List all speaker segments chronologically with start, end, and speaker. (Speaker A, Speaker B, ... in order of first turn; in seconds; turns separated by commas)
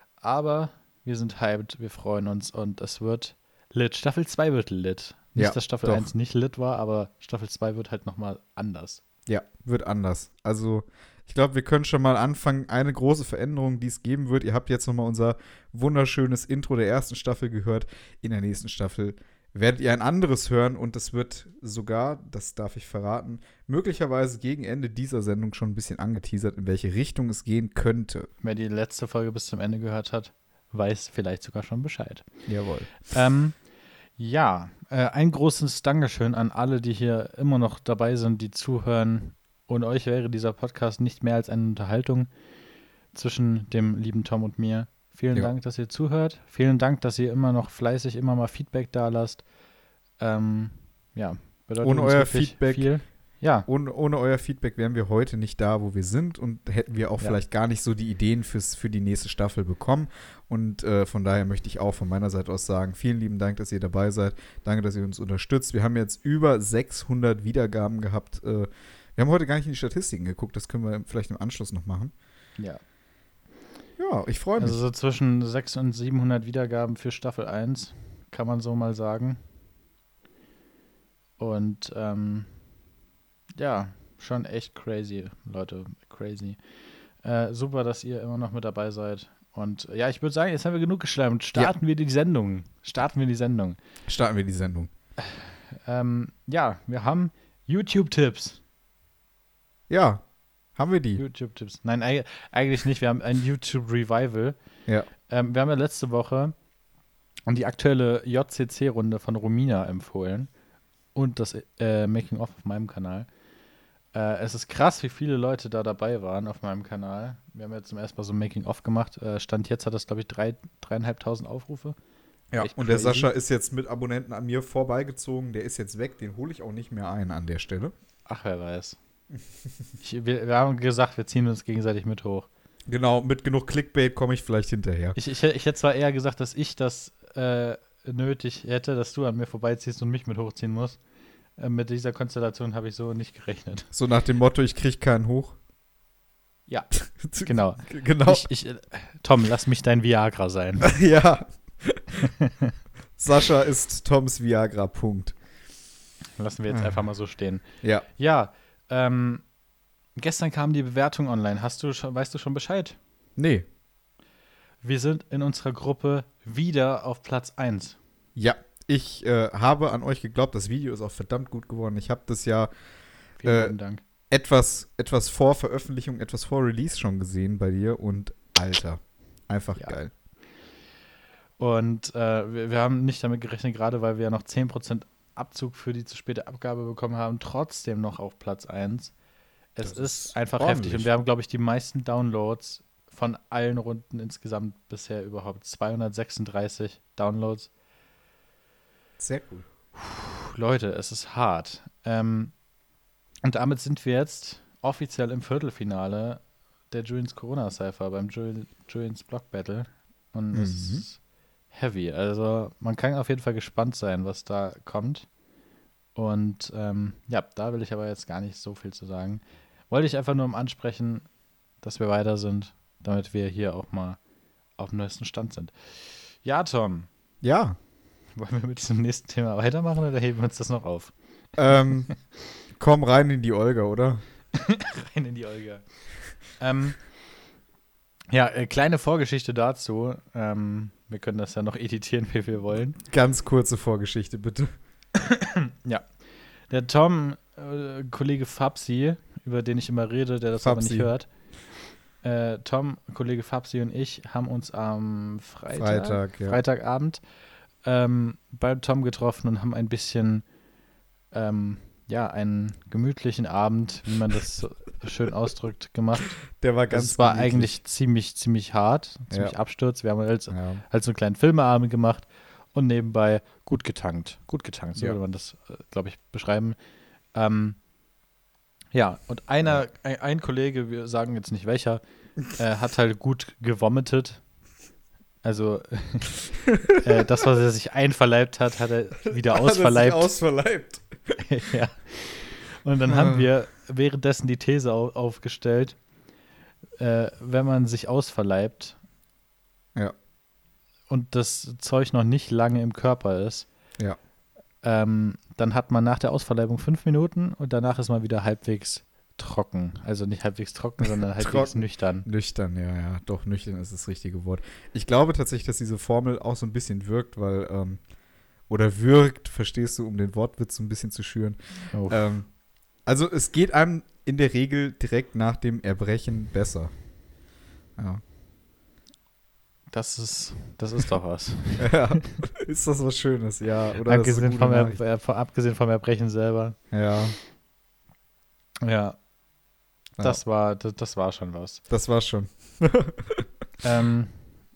Speaker A: 0.2-9.0, Speaker B: 5.3-6.1, Speaker B: 9.3-28.3, Speaker A: 28.4-32.2, Speaker B: 32.5-33.1, Speaker A: 33.0-33.5, Speaker A: 34.2-42.3, Speaker A: 43.1-49.4, Speaker A: 50.2-53.7, Speaker B: 51.8-52.9, Speaker B: 53.7-72.1, Speaker B: 74.0-74.8, Speaker A: 74.6-79.4, Speaker A: 81.4-82.5, Speaker A: 83.6-86.6, Speaker A: 87.2-93.8, Speaker B: 94.1-94.9, Speaker A: 95.2-98.6, Speaker B: 99.9-100.2, Speaker B: 100.8-101.2, Speaker A: 101.2-104.6, Speaker A: 105.3-106.5, Speaker A: 107.5-110.5, Speaker A: 111.2-113.3, Speaker A: 114.1-122.0, Speaker B: 122.5-127.9, Speaker A: 122.6-123.3, Speaker A: 128.3-129.0, Speaker A: 130.0-132.5, Speaker B: 132.9-135.2, Speaker A: 135.2-141.0, Speaker A: 141.6-143.9, Speaker B: 143.9-145.6, Speaker B: 147.2-148.5, Speaker A: 147.4-150.9, Speaker B: 150.8-152.3, Speaker A: 152.4-152.7, Speaker B: 153.2-155.4, Speaker A: 156.4-157.6, Speaker B: 156.7-157.0, Speaker A: 158.2-159.4, Speaker A: 160.2-163.0, Speaker B: 163.4-163.7, Speaker A: 164.8-168.0, Speaker B: 168.4-172.7, Speaker A: 173.4-174.0, Speaker B: 173.4-173.8, Speaker B: 174.3-180.1, Speaker A: 181.6-189.1, Speaker A: 189.8-197.7, Speaker B: 189.8-191.1, Speaker B: 199.2-199.7, Speaker A: 199.9-202.5, Speaker A: 203.4-211.2, Speaker B: 210.5-211.1, Speaker A: 211.7-215.3, Speaker A: 216.2-221.3, Speaker A: 221.8-224.2, Speaker A: 224.8-227.1, Speaker B: 227.4-227.8, Speaker A: 228.4-231.1, Speaker B: 231.6-232.1, Speaker B: 232.8-234.2, Speaker A: 234.6-235.9, Speaker A: 236.4-237.0, Speaker A: 238.3-243.0, Speaker B: 243.1-244.7, Speaker A: 245.2-246.1, Speaker A: 246.7-251.3, Speaker B: 250.6-251.1, Speaker A: 252.2-257.2, Speaker B: 255.7-256.6, Speaker A: 257.8-260.4, Speaker A: 261.3-266.4, Speaker B: 266.6-267.8, Speaker A: 266.9-276.8, Speaker B: 269.3-269.6, Speaker B: 270.5-270.8, Speaker A: 277.4-277.8, Speaker A: 278.9-282.0, Speaker A: 282.5-284.4, Speaker A: 285.4-286.3, Speaker B: 286.7-287.0, Speaker A: 287.0-290.3, Speaker B: 289.3-291.4, Speaker A: 291.5-296.0, Speaker B: 293.1-293.5, Speaker A: 297.0-299.0, Speaker A: 301.1-303.7, Speaker A: 304.8-312.3, Speaker B: 311.4-318.0, Speaker B: 318.7-322.5, Speaker A: 321.9-322.3, Speaker B: 323.1-326.9, Speaker B: 328.0-328.2, Speaker A: 329.9-332.3, Speaker B: 331.8-335.0, Speaker A: 334.0-336.8, Speaker B: 336.9-337.4, Speaker A: 338.8-339.2, Speaker A: 340.2-341.8, Speaker B: 341.9-343.5, Speaker A: 343.8-344.4